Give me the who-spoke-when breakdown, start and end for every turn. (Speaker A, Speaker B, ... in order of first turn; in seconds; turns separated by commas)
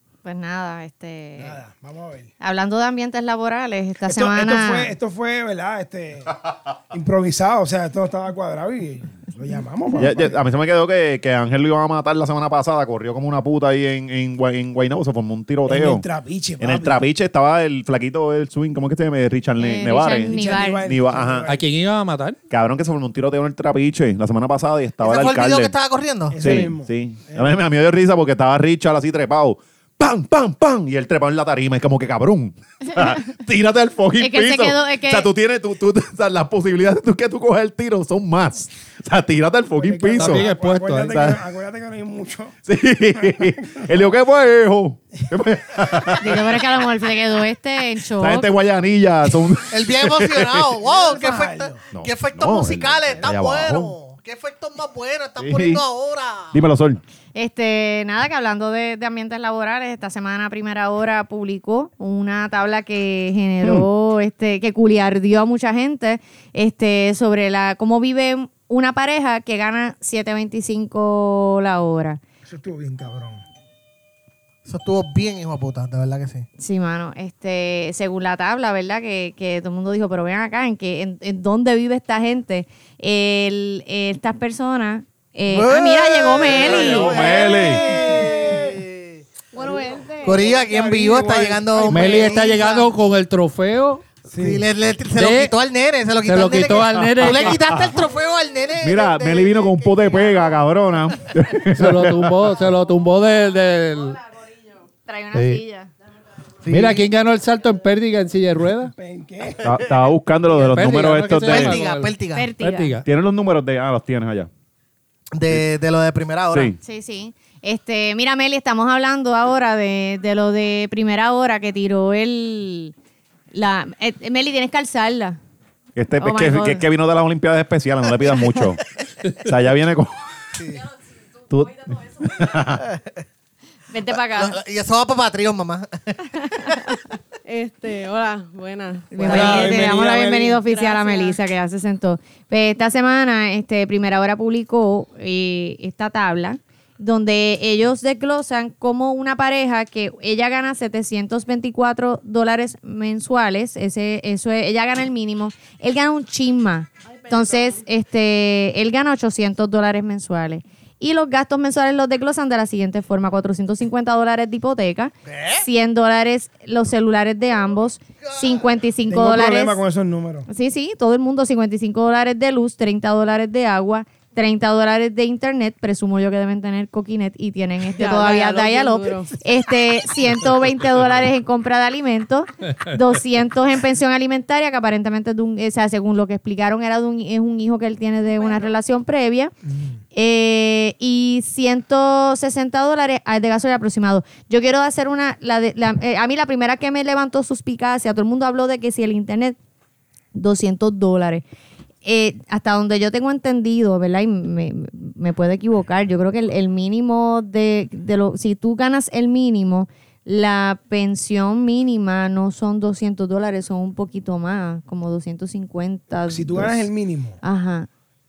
Speaker A: 0.2-1.6, Speaker B: 1.4-2.3, Speaker A: 2.4-4.9, Speaker B: 4.0-10.4, Speaker C: 10.0-16.1, Speaker B: 15.7-17.0, Speaker C: 16.6-21.5, Speaker A: 19.6-20.8, Speaker B: 20.2-21.6, Speaker D: 21.4-22.4, Speaker C: 22.5-25.7, Speaker E: 25.0-26.7, Speaker B: 26.3-27.6, Speaker C: 26.4-40.5, Speaker A: 34.2-35.3, Speaker B: 39.8-42.5, Speaker D: 40.1-41.2, Speaker C: 41.1-41.4, Speaker C: 42.7-46.7, Speaker B: 43.2-43.8, Speaker A: 46.2-48.5, Speaker C: 48.2-50.7, Speaker E: 49.7-56.6, Speaker B: 50.8-51.8, Speaker C: 51.9-53.9, Speaker C: 55.4-55.8, Speaker C: 56.5-57.0, Speaker A: 57.4-72.2, Speaker B: 72.5-73.4, Speaker E: 74.7-76.5, Speaker A: 76.6-87.3, Speaker E: 85.5-89.2, Speaker C: 86.5-88.0, Speaker B: 87.3-88.7, Speaker A: 89.5-90.4, Speaker B: 89.6-92.5, Speaker E: 90.2-92.9, Speaker D: 91.9-94.1, Speaker B: 94.3-94.7, Speaker E: 94.4-100.6, Speaker D: 95.2-95.5, Speaker D: 96.2-97.6, Speaker C: 97.6-98.0, Speaker C: 98.8-102.4, Speaker D: 101.6-104.2, Speaker A: 105.1-105.9, Speaker D: 105.3-105.6, Speaker E: 106.6-107.1, Speaker D: 106.7-108.9, Speaker B: 108.9-109.8, Speaker C: 109.6-111.8, Speaker D: 110.6-113.1, Speaker E: 111.4-112.5, Speaker A: 112.3-113.0, Speaker C: 113.0-114.5, Speaker E: 115.3-116.8, Speaker C: 116.5-116.8, Speaker A: 116.8-122.9, Speaker A: 123.5-125.4, Speaker C: 126.0-128.8, Speaker A: 126.2-126.9, Speaker C: 129.3-130.2, Speaker E: 130.6-130.8, Speaker C: 131.5-132.8, Speaker E: 132.8-133.1, Speaker A: 133.9-134.6, Speaker E: 134.3-136.8, Speaker F: 137.4-139.9, Speaker A: 139.1-169.8, Speaker B: 139.2-140.6, Speaker F: 140.6-141.4, Speaker F: 157.2-157.8, Speaker E: 165.3-165.7, Speaker B: 169.1-170.5, Speaker A: 170.5-189.5, Speaker F: 177.9-179.3, Speaker F: 188.4-188.7, Speaker A: 190.1-199.6, Speaker A: 200.3-201.4, Speaker A: 202.1-216.9, Speaker B: 216.3-217.4, Speaker A: 217.4-217.9